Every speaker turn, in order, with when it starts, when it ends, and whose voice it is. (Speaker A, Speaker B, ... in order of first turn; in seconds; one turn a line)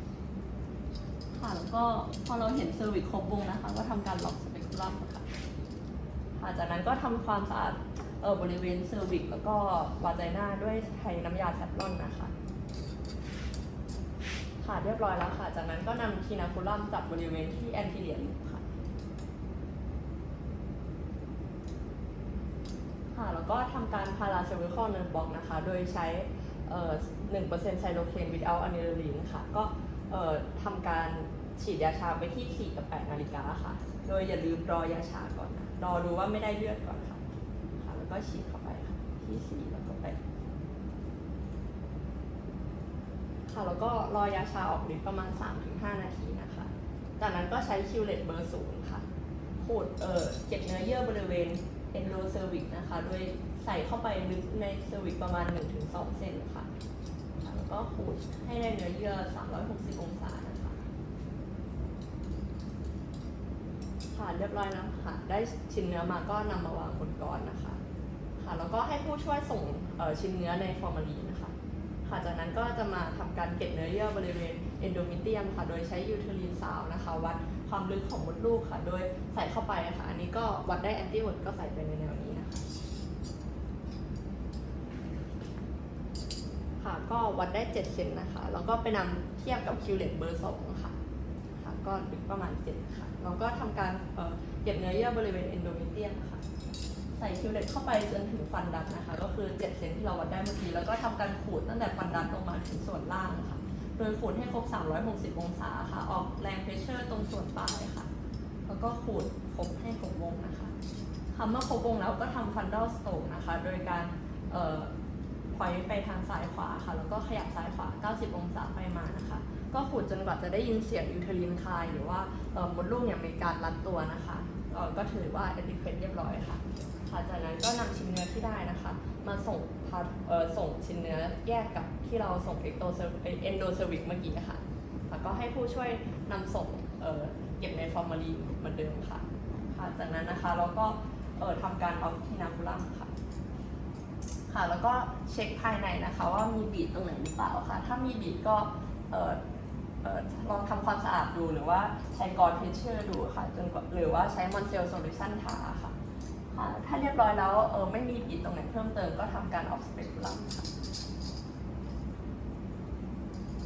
Speaker A: 1.3-5.3
Speaker A: 6.4-12.3
Speaker A: 14.6-18.8
Speaker A: 23.1-37.2
Speaker A: 37.8-40.2
Speaker A: 43.5-49.0
Speaker A: 49.6-56.7
Speaker A: 57.4-60.8
Speaker A: 64.1-67.8
Speaker A: 68.4-82.7
Speaker A: 86.8-90.9
Speaker A: 91.6-96.4
Speaker A: 97.2-108.1
Speaker A: 108.7-110.7
Speaker A: 111.3-114.9
Speaker A: 115.5-143.1
Speaker A: 144.5-149.4
Speaker A: 150.0-155.9
Speaker A: 156.5-160.7